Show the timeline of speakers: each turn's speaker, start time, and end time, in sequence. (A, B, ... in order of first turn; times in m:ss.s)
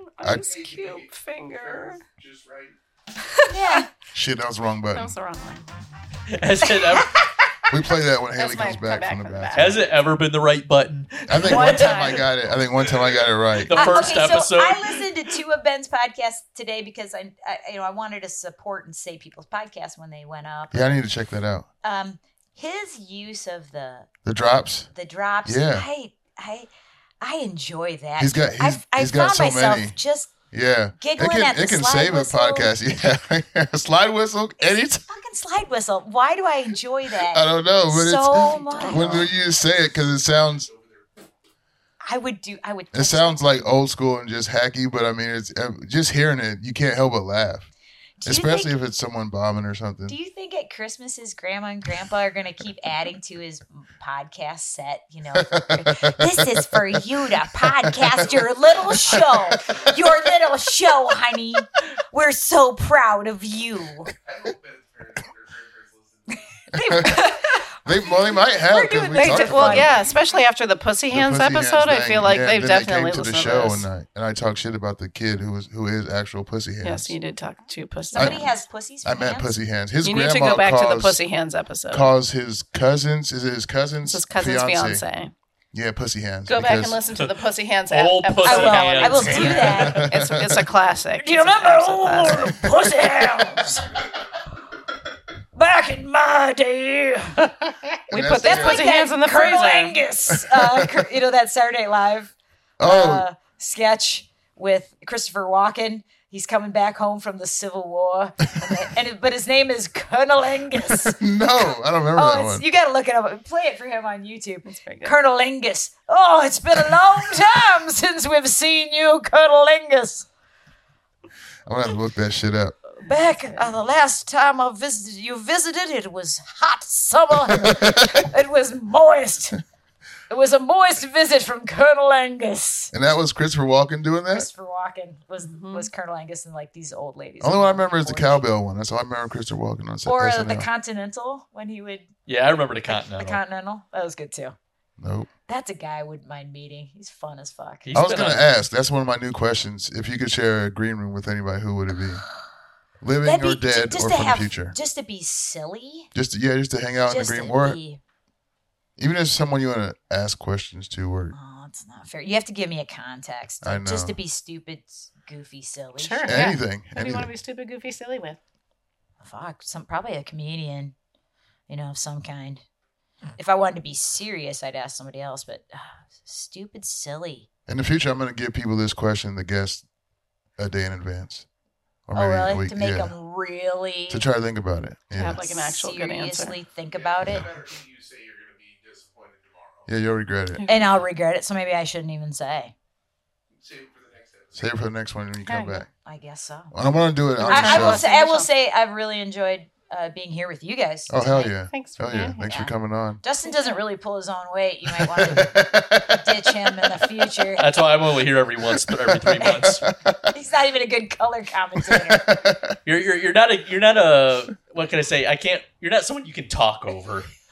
0:00.2-0:02.0 A
0:00.2-0:02.7 B
0:03.3-0:03.8 A
0:03.5-0:03.9 C
0:04.1-0:05.1 D
0:04.9-0:05.6 A
0:06.3-0:07.2 E
0:07.7-0:09.8 D
0:08.4-0:09.8 A
0:09.5-0:12.3 E
0:11.3-0:14.2 D
0:11.4-0:12.3 A
0:12.4-0:13.2 B
0:13.6-0:15.1 E
0:13.7-0:21.0 C
0:20.7-0:21.7 D
0:21.8-0:24.1 C
0:24.2-0:24.9 D
0:24.9-0:26.7 C
0:25.4-0:25.8 D
0:27.2-0:30.3 C
0:28.2-0:29.9 D
0:30.5-0:35.0 D
0:31.0-0:32.7 C
0:35.0-0:39.3 C
0:37.2-0:40.7 D
0:38.7-0:39.2 A
0:39.2-0:41.1 B
0:42.0-0:43.7 C
0:42.9-0:47.7 D
0:48.2-0:48.7 C
0:48.2-0:50.2 D
0:50.1-1:04.1 C
0:55.3-0:58.3 D
0:58.2-0:58.5 B
0:59.1-0:59.6 D
1:04.2-1:07.0 B
1:06.7-1:07.2 D
1:06.7-1:10.0 C
1:07.8-1:10.0 D
1:09.1-1:13.9 A
1:11.1-1:17.1 D
1:16.8-1:18.6 A
1:18.1-1:19.5 C
1:18.2-1:18.5 D
1:19.0-1:21.2 D
1:20.0-1:22.1 A
1:21.9-1:25.0 D
1:24.0-1:25.3 A
1:25.7-1:27.0 D
1:26.5-1:32.5 A
1:27.9-1:30.0 E
1:28.4-1:30.1 C
1:29.7-1:30.6 D
1:31.2-1:34.0 C
1:35.5-1:37.5 C
1:38.1-1:38.9 D
1:38.1-1:40.0 A
1:38.3-1:51.2 C
1:40.3-1:41.0 D
1:42.8-1:43.2 D
1:51.1-1:52.6 D
1:52.1-2:00.3 C
1:54.6-1:55.1 A
2:01.6-2:02.8 D
2:03.0-2:09.6 C
2:07.5-2:08.3 D
2:10.3-2:12.9 C
2:12.9-2:14.5 D
2:14.3-2:18.4 C
2:15.4-2:15.9 A
2:17.4-2:20.7 D
2:20.0-2:22.1 C
2:22.3-2:23.4 E
2:22.9-2:24.6 C
2:25.0-2:25.3 D
2:25.5-2:27.9 C
2:27.8-2:28.4 E
2:27.9-2:32.2 D
2:33.0-2:34.8 D
2:33.2-2:36.1 C
2:36.1-2:37.8 D
2:37.1-2:38.0 C
2:39.0-2:41.3 D
2:41.3-2:46.5 C
2:43.6-2:44.2 D
2:46.0-2:48.4 A
2:46.2-2:47.3 D
2:49.2-2:50.9 C
2:51.7-2:52.6 C
2:53.4-2:57.5 C
2:57.7-2:59.8 D
3:00.6-3:01.4 D
3:02.1-3:03.1 D
3:02.1-3:04.2 C
3:04.1-3:05.4 D
3:05.1-3:06.5 A
3:05.2-3:07.5 C
3:06.9-3:09.9 B
3:09.9-3:10.6 D
3:10.6-3:10.9 A
3:10.6-3:12.7 C
3:13.6-3:14.7 B
3:14.6-3:15.9 D
3:15.5-3:15.8 A
3:16.0-3:16.7 C
3:16.7-3:18.0 D
3:17.4-3:18.5 A
3:17.4-3:21.4 C
3:21.1-3:23.2 D
3:21.3-3:22.4 A
3:22.4-3:27.7 C
3:24.9-3:27.1 D
3:27.6-3:29.8 E
3:28.6-3:30.3 D
3:29.4-3:29.8 C
3:30.3-3:32.2 C
3:31.8-3:32.8 D
3:32.8-3:37.3 E